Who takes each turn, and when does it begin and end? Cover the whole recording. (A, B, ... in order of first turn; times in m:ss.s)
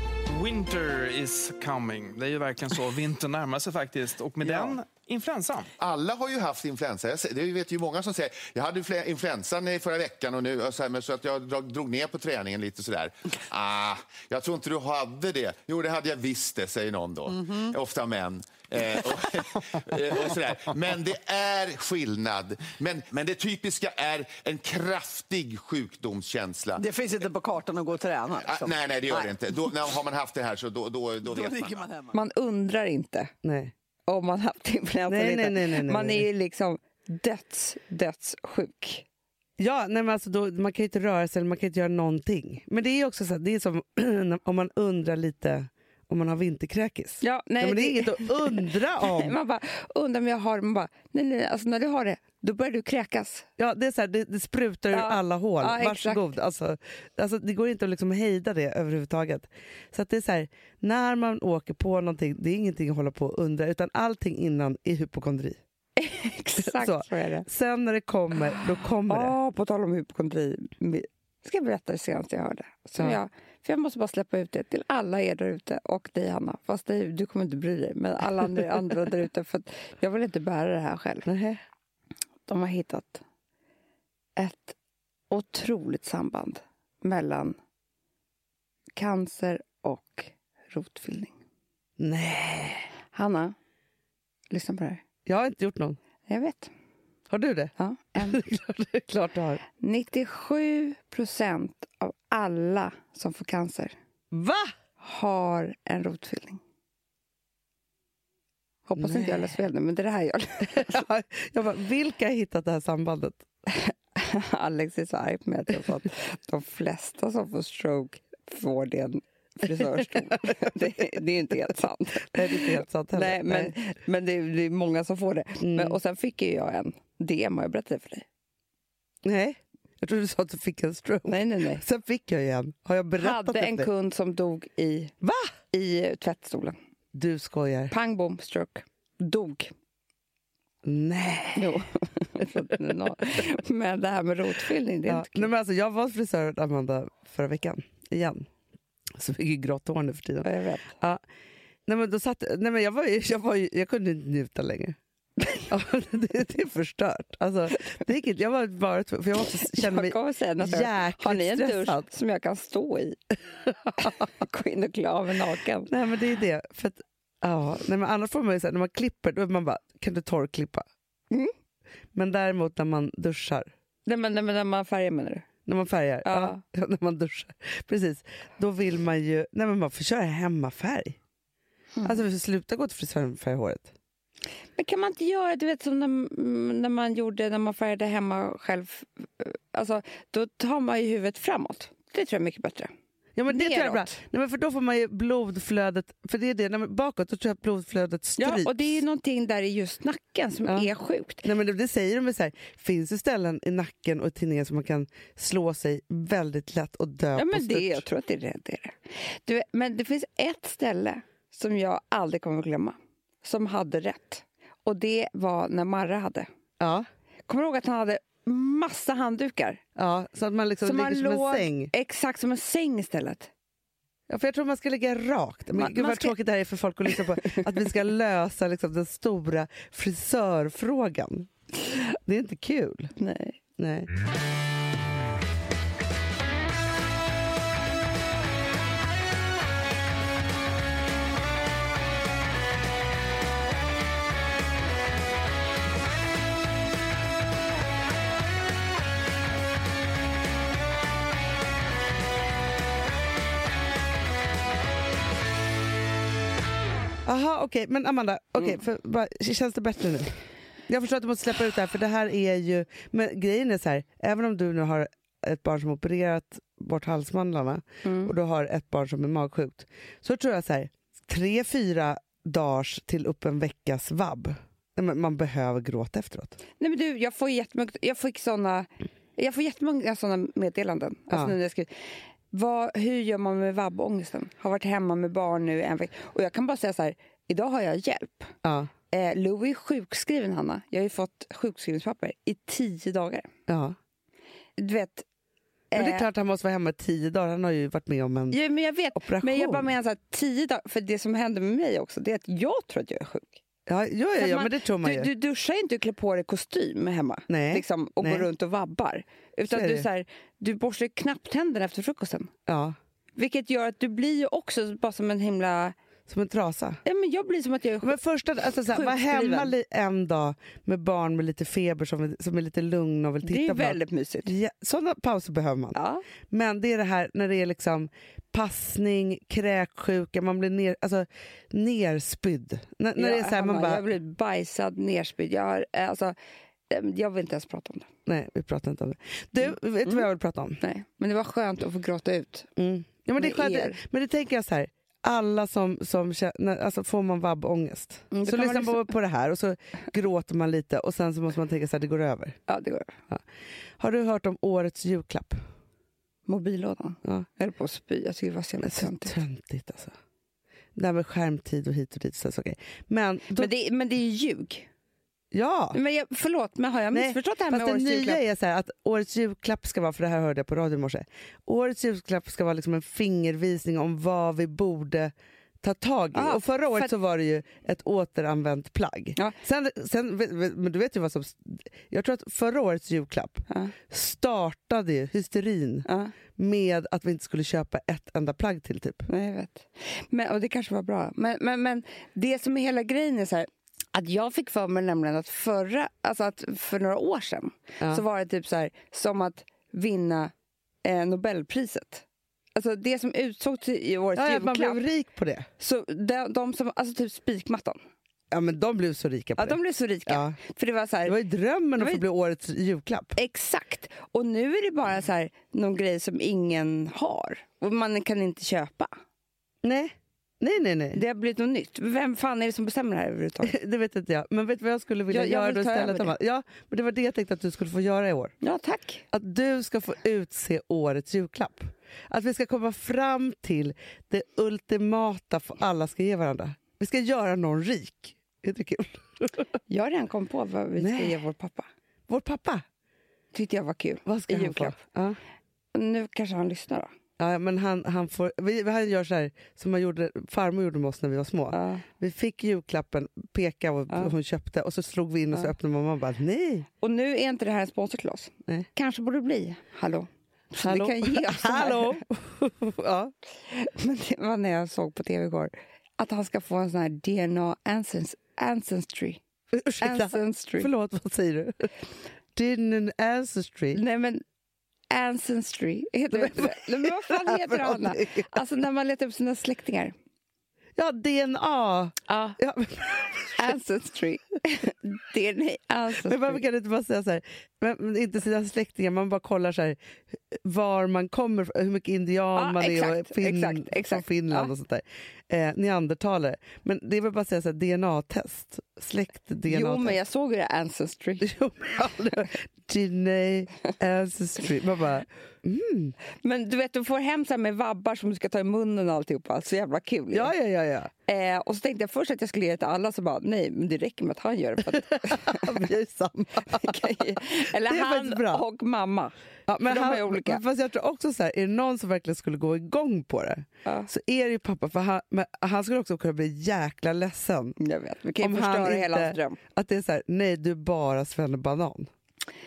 0:00.3-0:05.7 A
0:04.4-0:04.8 B
0:05.8-0:26.8 B
0:17.3-0:17.7 C
0:26.8-0:29.3 C
0:28.4-0:31.9 B
0:31.3-0:32.1 C
0:32.1-0:33.3 D
0:33.4-0:33.7 E
0:34.1-0:39.0 D
0:35.1-0:36.2 E
0:39.6-0:49.4 E
0:47.2-0:53.4 D
0:53.6-1:05.6 E
0:54.9-0:56.3 D
1:06.0-1:07.5 D
1:06.6-1:09.3 E
1:09.1-1:21.3 D
1:21.2-1:21.6 E
1:22.5-1:23.2 D
1:24.4-1:24.8 D
1:25.3-1:27.6 D
1:28.9-1:31.4 D
1:32.0-1:32.9 E
1:33.1-1:33.5 D
1:34.5-1:35.0 D
1:35.2-1:36.0 E
1:36.3-1:36.7 D
1:37.3-1:39.6 E
1:37.8-1:38.4 D
1:39.8-1:44.0 D
1:44.3-1:44.7 E
1:45.0-1:46.6 D
1:48.9-1:51.1 D
1:49.0-1:49.5 E
1:50.7-1:53.5 E
1:53.7-2:08.2 D
2:00.3-2:00.7 E
2:02.3-2:03.7 E
2:05.6-2:06.0 E
2:09.2-2:13.9 E
2:11.3-2:11.8 D
2:13.2-2:15.1 D
2:15.2-2:15.5 E
2:15.7-2:16.8 D
2:17.1-2:17.9 E
2:17.9-2:19.7 D
2:20.8-2:21.7 E
2:21.5-2:25.5 D
2:25.1-2:28.5 E
2:29.2-2:31.2 E
2:30.4-2:30.9 D
2:31.9-2:35.0 E
2:35.7-2:42.0 E
2:39.6-2:43.2 D
2:43.7-2:44.2 E
2:44.0-2:45.9 D
2:45.9-2:50.8 E
2:52.1-2:53.7 E
2:54.0-2:55.5 D
2:55.7-3:01.2 E
2:56.2-2:56.6 D
3:02.0-3:03.9 E
3:04.8-3:12.9 D
3:13.4-3:19.0 E
3:13.5-3:14.2 D
3:18.4-3:21.5 D
3:21.4-3:28.0 E
3:27.4-3:36.5 D
3:36.8-3:37.1 E
3:37.5-3:39.8 D
3:40.0-3:41.9 E
3:40.8-3:43.5 D
3:44.3-3:51.5 E
3:45.7-3:46.3 D
3:47.1-3:47.9 D
3:52.2-3:53.1 E
3:53.2-3:53.6 D
3:53.8-3:54.1 E
4:17.2-4:36.6 E
4:28.0-4:28.3 D
4:36.8-4:48.5 D
4:41.3-4:41.5 E
4:48.6-4:48.9 E
4:49.1-4:53.5 D
4:53.7-4:54.0 E
4:54.8-4:55.2 D
4:55.9-4:56.2 D
4:55.9-4:58.6 E
4:58.5-5:03.6 D
4:59.1-4:59.9 E
5:03.9-5:05.3 E
5:04.4-5:12.5 D
5:07.5-5:08.5 E
5:09.7-5:10.0 E
5:12.7-5:13.0 E
5:13.4-5:15.9 D
5:16.3-5:17.0 E
5:17.0-5:18.2 D
5:18.0-5:26.0 E
5:18.9-5:19.7 D
5:23.4-5:24.5 D
5:25.9-5:26.2 D
5:26.5-5:34.0 E
5:33.2-5:36.3 D
5:36.9-5:38.1 D
5:38.2-5:40.8 E
5:39.6-5:40.3 D
5:40.8-5:42.7 D
5:42.8-5:52.6 E
5:43.4-5:44.0 D
5:48.3-5:49.1 D
5:52.7-5:53.1 D
5:54.0-5:55.6 E
5:56.5-5:59.4 D
5:58.8-6:00.1 E
6:00.9-6:03.7 E
6:03.6-6:04.9 D
6:05.5-6:06.0 E
6:05.9-6:08.4 D
6:07.1-6:29.3 E
6:16.3-6:17.1 D
6:26.1-6:26.3 D
6:29.3-6:40.5 D
6:41.0-6:42.2 D
6:42.7-6:45.0 D
6:44.4-6:45.7 E
6:45.8-6:48.0 D
6:48.5-6:50.6 E
6:49.6-6:51.3 D
6:51.2-6:53.4 E
6:52.0-6:52.2 D
6:53.4-6:59.1 D
6:59.8-7:01.2 E
7:01.1-7:03.7 D
7:03.6-7:08.5 E
7:05.3-7:06.3 D
7:08.6-7:09.2 D
7:09.3-7:19.6 E
7:19.9-7:21.9 D
7:21.0-7:21.3 E
7:22.3-7:22.8 E
7:23.5-7:25.0 D
7:24.2-7:25.4 E
7:25.9-7:27.1 D
7:27.4-7:36.9 E
7:31.7-7:32.0 D
7:37.0-7:42.2 D
7:40.8-7:43.3 E
7:43.7-7:49.4 D
7:49.7-7:51.9 E
7:50.0-7:50.9 D
7:52.5-7:54.0 E
7:53.9-7:54.4 D
7:55.1-8:00.1 D
7:56.3-7:58.5 E
8:01.0-8:03.8 E
8:02.3-8:02.6 D
8:03.6-8:06.6 D
8:06.2-8:10.0 E
8:10.5-8:20.2 E
8:12.6-8:14.7 D
8:19.7-8:21.5 D
8:21.4-8:26.2 E
8:26.4-8:30.5 D
8:30.3-8:31.1 E
8:31.3-8:35.8 D
8:35.0-8:38.6 E
8:36.7-8:40.6 D
8:39.7-8:47.8 E
8:47.8-8:49.6 D
8:48.4-8:52.1 E